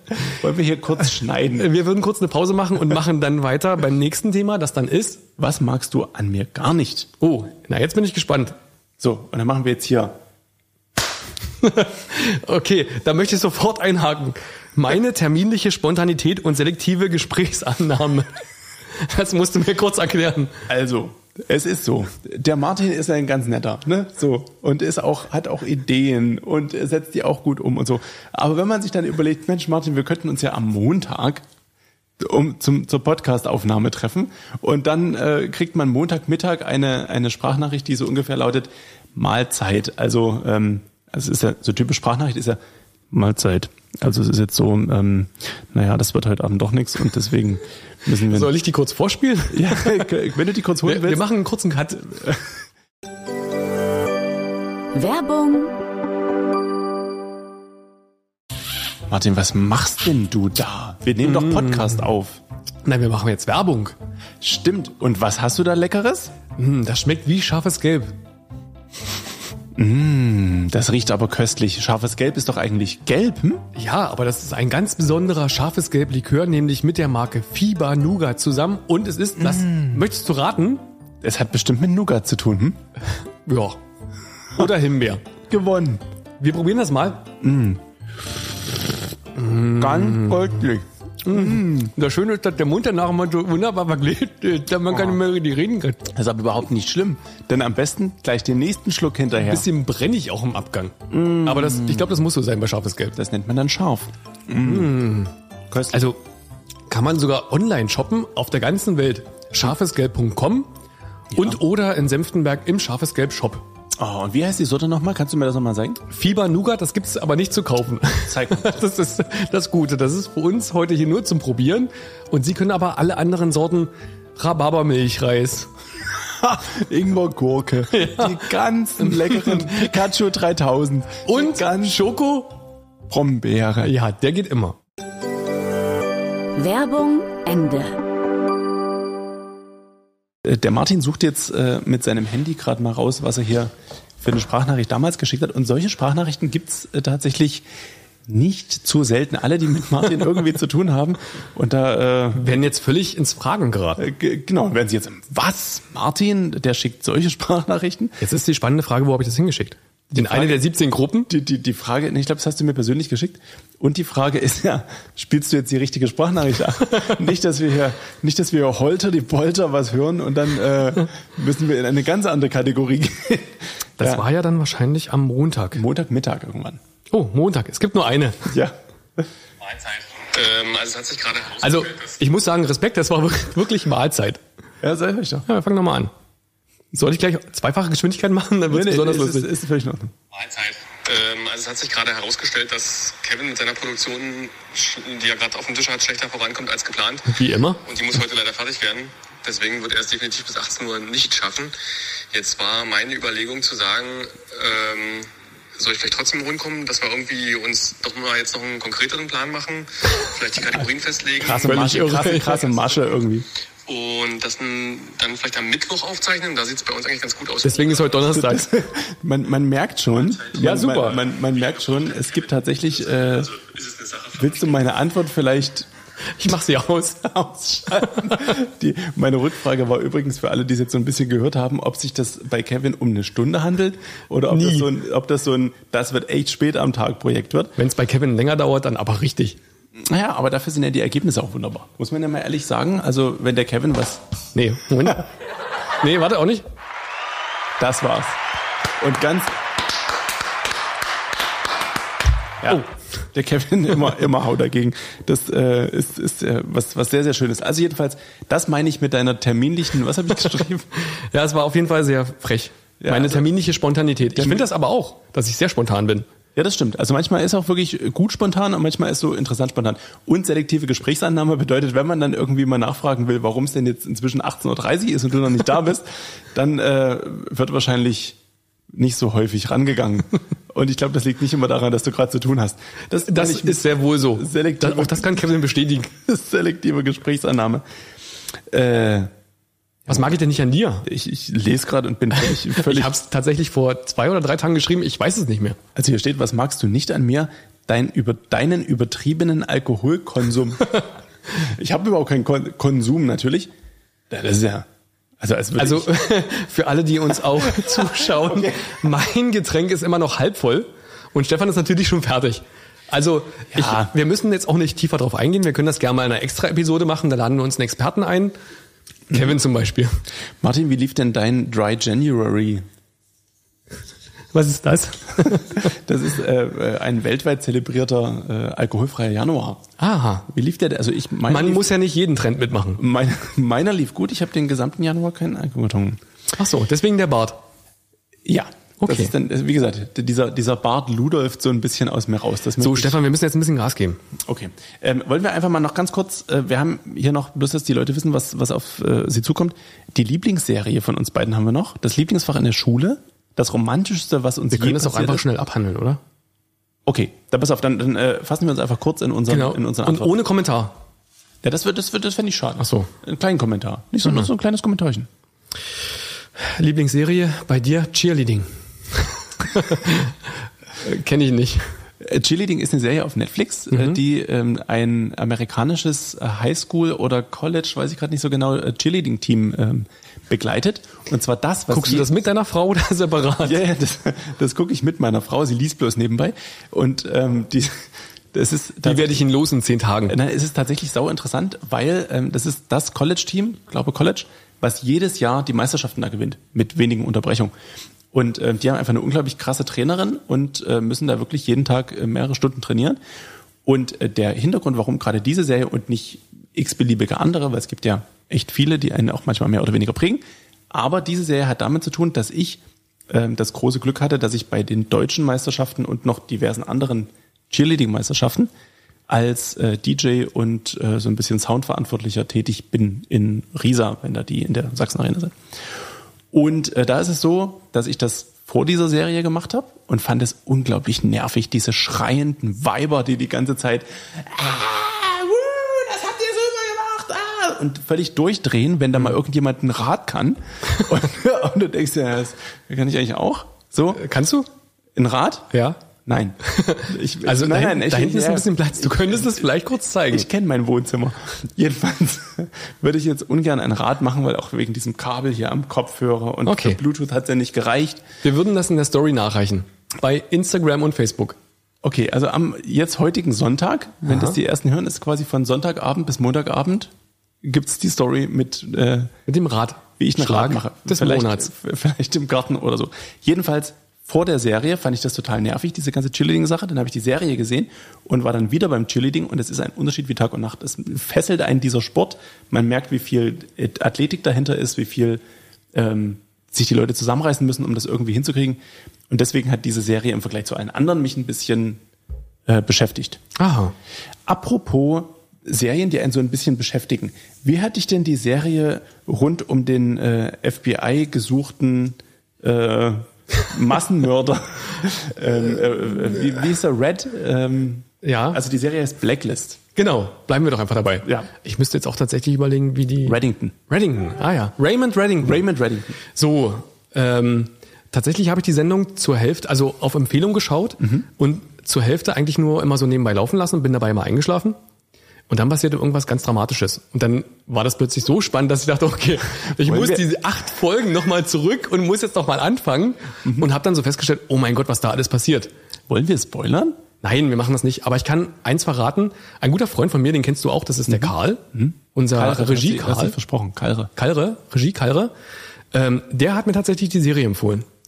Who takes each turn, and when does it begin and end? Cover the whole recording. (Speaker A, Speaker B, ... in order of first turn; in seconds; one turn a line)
Speaker A: 0.3-1.7
Speaker B: 1.6-5.2
Speaker A: 5.4-7.1
Speaker B: 7.2-8.6
Speaker A: 9.0-10.2
Speaker B: 11.6-18.4
Speaker B: 19.0-20.6
Speaker A: 20.7-31.4
Speaker A: 32.2-42.6
Speaker A: 43.1-48.5
Speaker B: 48.3-50.1
Speaker A: 49.5-51.2
Speaker B: 50.9-52.3
Speaker C: 54.9-55.8
Speaker A: 59.1-62.4
Speaker B: 61.2-62.1
Speaker B: 62.9-64.0
Speaker A: 64.4-66.3
Speaker B: 66.6-68.1
Speaker A: 69.8-73.7
Speaker B: 73.8-80.8
Speaker A: 79.4-80.0
Speaker A: 81.2-82.8
Speaker B: 83.5-83.8
Speaker B: 84.5-85.2
Speaker A: 85.5-86.0
Speaker B: 86.4-87.3
Speaker A: 87.4-87.8
Speaker B: 89.4-90.6
Speaker A: 89.8-91.9
Speaker B: 91.2-96.1
Speaker A: 94.9-95.2
Speaker A: 96.1-99.7
Speaker B: 99.5-103.2
Speaker A: 101.1-102.2
Speaker A: 103.2-105.0
Speaker B: 104.6-105.3
Speaker A: 105.7-106.0
Speaker B: 105.9-106.2
Speaker B: 106.9-110.7
Speaker A: 111.3-111.6
Speaker B: 111.3-113.6
Speaker A: 114.0-116.0
Speaker B: 116.1-125.7
Speaker A: 118.3-118.7
Speaker A: 126.3-132.0
Speaker B: 127.9-128.4
Speaker B: 129.0-129.9
Speaker B: 131.3-132.5
Speaker A: 133.1-133.9
Speaker B: 133.8-134.8
Speaker C: 136.6-138.0
Speaker A: 140.4-147.7
Speaker A: 148.3-152.6
Speaker B: 152.3-154.0
Speaker A: 154.0-158.2
Speaker B: 158.2-161.3
Speaker A: 160.1-160.6
Speaker A: 161.3-174.2
Speaker B: 174.0-175.8
Speaker A: 175.7-176.8
Speaker B: 177.1-178.5
Speaker A: 178.5-179.3
Speaker D: 179.6-182.2
Speaker B: 181.6-184.4
Speaker A: 184.8-185.5
Speaker B: 185.5-186.1
Speaker B: 186.9-189.5
Speaker A: 188.7-190.1
Speaker D: 190.3-197.3
Speaker B: 197.3-197.8
Speaker D: 197.8-201.7
Speaker D: 202.3-211.9
Speaker A: 211.4-213.5
Speaker B: 211.6-212.6
Speaker D: 213.9-218.3
Speaker B: 217.6-218.7
Speaker A: 218.3-225.9
Speaker B: 220.6-221.2
Speaker B: 226.4-227.3
Speaker A: 227.2-237.8
Speaker B: 227.9-228.6
Speaker B: 234.5-234.9
Speaker B: 237.8-239.6
Speaker A: 239.9-244.2
Speaker B: 244.6-245.3
Speaker B: 246.0-246.7
Speaker A: 247.8-248.4
Speaker A: 249.0-249.6
Speaker A: 252.6-260.9
Speaker B: 261.3-266.3
Speaker A: 263.0-263.5
Speaker A: 264.4-264.7
Speaker A: 266.6-278.4
Speaker A: 278.9-285.5
Speaker B: 283.2-286.1
Speaker A: 286.2-287.8
Speaker A: 288.7-289.3
Speaker A: 290.1-290.4
Speaker B: 290.1-291.1
Speaker A: 291.1-293.2
Speaker B: 292.5-295.8
Speaker A: 295.9-301.0
Speaker A: 301.5-303.7
Speaker A: 304.3-304.9
Speaker A: 305.4-306.2
Speaker B: 305.8-318.6
Speaker A: 307.6-309.0
Speaker A: 313.7-314.1
Speaker B: 319.3-320.1
Speaker A: 320.6-322.9
Speaker B: 324.5-325.9
Speaker A: 325.5-329.8
Speaker B: 330.0-330.5
Speaker A: 330.5-331.9
Speaker B: 331.5-333.0
Speaker A: 333.0-336.2
Speaker B: 336.6-337.6
Speaker A: 338.4-343.2
Speaker B: 339.0-339.3
Speaker B: 342.8-344.2
Speaker A: 344.4-355.4
Speaker B: 354.7-356.2
Speaker A: 357.1-360.3
Speaker B: 359.5-361.0
Speaker A: 361.6-365.3
Speaker B: 362.8-363.1
Speaker B: 366.6-370.4
Speaker B: 371.0-371.9
Speaker A: 372.2-382.3
Speaker B: 373.9-374.2
Speaker B: 381.9-383.8
Speaker A: 383.6-389.4
Speaker B: 389.1-390.4
Speaker A: 390.3-397.7
Speaker A: 398.3-403.2
Speaker A: 403.9-418.7
Speaker A: 419.3-425.6
Speaker A: 426.5-444.2
Speaker B: 444.1-444.7
Speaker A: 445.1-445.7
Speaker B: 445.7-446.0
Speaker A: 446.2-449.7
Speaker B: 446.7-450.5
Speaker A: 450.3-458.2
Speaker B: 456.6-457.0
Speaker B: 458.4-461.6
Speaker A: 462.0-469.3
Speaker B: 464.3-464.6
Speaker B: 469.5-471.7
Speaker A: 470.2-485.4
Speaker A: 485.9-492.0
Speaker A: 492.7-493.4
Speaker B: 493.6-493.9
Speaker A: 494.5-509.8
Speaker B: 508.2-508.6
Speaker B: 509.9-515.6
Speaker A: 513.2-513.8
Speaker A: 515.4-516.2
Speaker B: 516.3-524.8
Speaker B: 525.5-535.7
Speaker A: 529.8-530.3
Speaker A: 533.4-533.7
Speaker A: 536.1-537.0
Speaker B: 537.2-541.6
Speaker A: 541.1-544.1
Speaker B: 542.1-543.4
Speaker B: 544.2-545.3
Speaker B: 545.9-547.9